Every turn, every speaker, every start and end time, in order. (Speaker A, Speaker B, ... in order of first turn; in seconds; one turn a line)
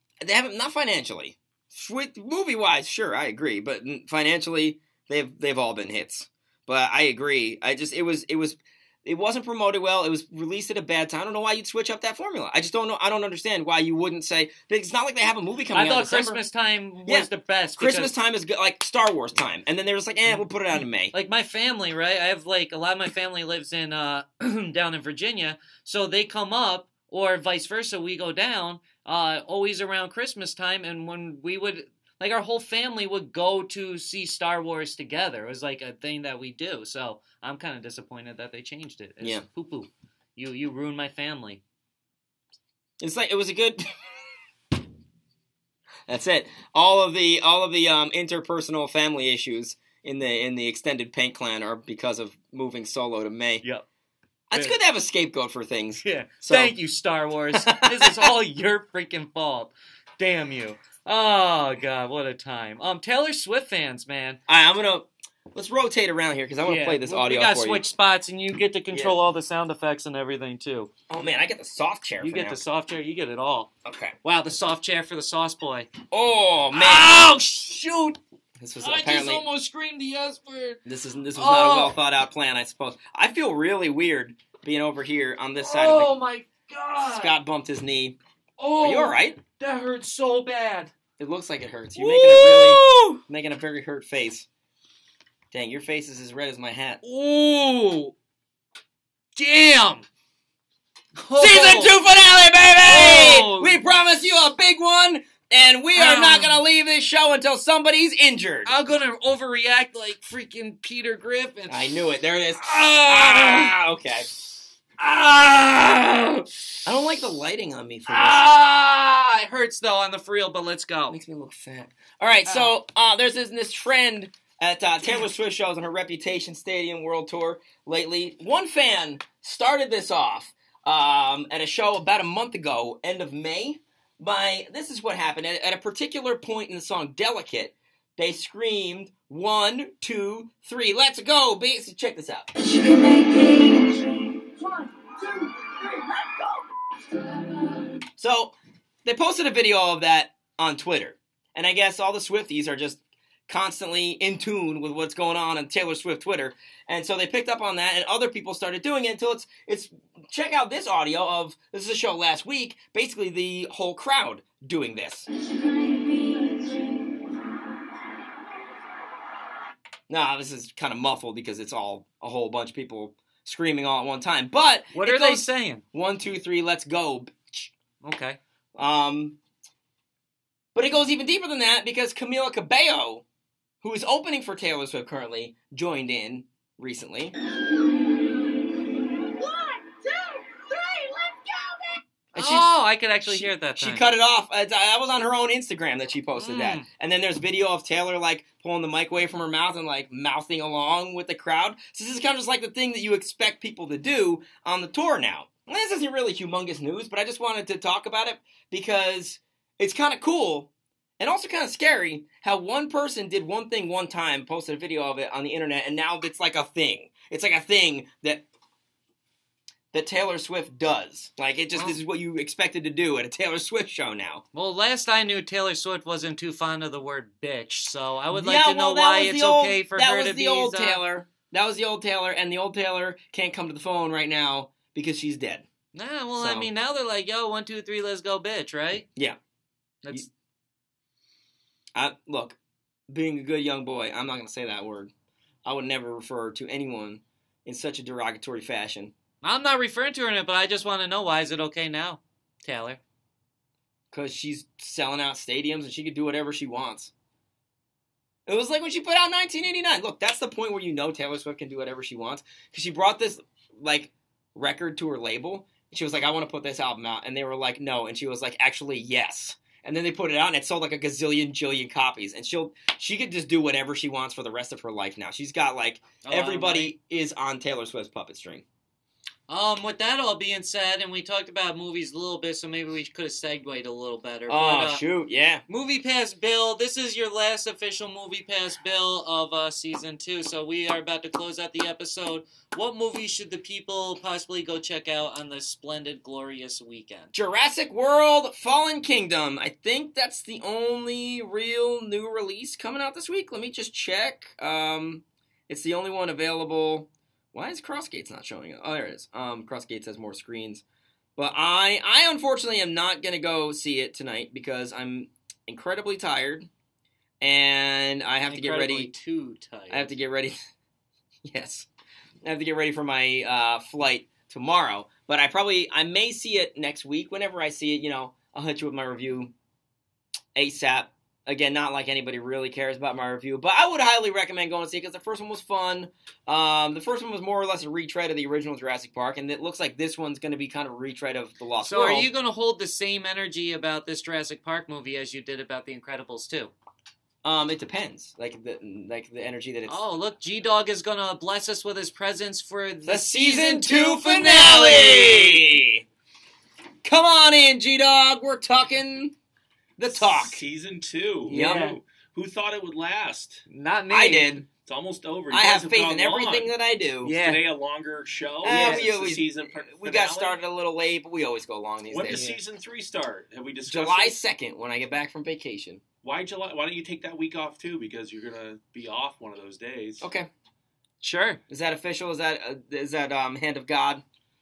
Speaker A: 0.2-16.4
Speaker B: 15.7-18.1
Speaker A: 17.1-21.1
Speaker B: 21.1-41.6
Speaker A: 43.0-44.1
Speaker A: 46.1-53.6
Speaker A: 54.5-56.7
Speaker B: 56.0-64.4
Speaker A: 57.5-58.3
Speaker A: 64.5-67.8
Speaker B: 66.6-70.9
Speaker A: 68.9-69.2
Speaker A: 71.1-72.6
Speaker B: 72.2-73.7
Speaker A: 73.8-74.2
Speaker B: 74.2-75.9
Speaker A: 76.1-77.1
Speaker B: 76.7-78.2
Speaker A: 78.6-79.4
Speaker B: 78.8-80.8
Speaker A: 80.8-86.1
Speaker B: 81.3-82.0
Speaker B: 85.6-87.3
Speaker A: 87.0-88.2
Speaker B: 88.6-90.9
Speaker A: 88.8-89.4
Speaker A: 91.2-94.5
Speaker B: 92.0-93.2
Speaker A: 95.5-97.0
Speaker B: 97.0-98.1
Speaker B: 99.3-100.0
Speaker B: 101.2-101.9
Speaker A: 101.4-108.7
Speaker B: 102.8-103.8
Speaker B: 105.9-106.6
Speaker B: 108.7-111.8
Speaker A: 111.7-114.3
Speaker B: 112.6-113.7
Speaker A: 115.0-115.6
Speaker B: 115.0-116.4
Speaker A: 116.8-118.4
Speaker B: 118.1-121.2
Speaker A: 121.1-142.5
Speaker B: 122.5-122.8
Speaker A: 148.2-165.3
Speaker A: 170.1-177.7
Speaker B: 174.9-175.8
Speaker B: 178.0-178.4
Speaker A: 178.8-179.4
Speaker A: 180.7-183.2
Speaker A: 183.8-187.3
Speaker A: 192.3-192.7
Speaker B: 192.3-194.0
Speaker A: 193.2-218.4
Speaker B: 196.4-196.9
Speaker A: 219.9-224.4
Speaker B: 224.5-231.0
Speaker A: 228.3-235.7
Speaker B: 235.9-239.1
Speaker A: 236.4-236.7
Speaker B: 240.0-240.3
Speaker A: 241.9-242.6
Speaker A: 243.1-245.1
Speaker A: 245.6-249.1
Speaker B: 249.4-253.0
Speaker A: 254.1-257.1
Speaker A: 258.5-278.6
Speaker B: 276.2-276.9
Speaker B: 279.5-285.0
Speaker A: 284.5-285.6
Speaker B: 285.7-297.3
Speaker A: 297.3-310.8
Speaker A: 311.4-316.7
Speaker A: 317.4-319.1
Speaker B: 318.5-320.1
Speaker A: 319.9-320.6
Speaker A: 321.4-321.9
Speaker A: 322.4-329.5
Speaker A: 330.5-342.3
Speaker B: 341.8-346.7
Speaker A: 347.4-350.0
Speaker B: 349.9-355.7
Speaker A: 353.1-356.0
Speaker A: 357.0-359.4
Speaker A: 360.0-360.6
Speaker C: 360.1-363.6
Speaker B: 361.4-362.0
Speaker A: 361.5-361.9
Speaker B: 363.7-364.5
Speaker A: 364.1-364.7
Speaker C: 364.8-366.7
Speaker A: 365.5-367.3
Speaker B: 367.2-367.7
Speaker C: 367.3-370.6
Speaker A: 368.6-372.4
Speaker B: 368.6-369.1
Speaker C: 372.1-374.4
Speaker B: 372.3-372.6
Speaker A: 373.9-376.0
Speaker C: 376.2-380.3
Speaker A: 380.2-380.5
Speaker B: 381.2-381.6
Speaker A: 381.7-384.2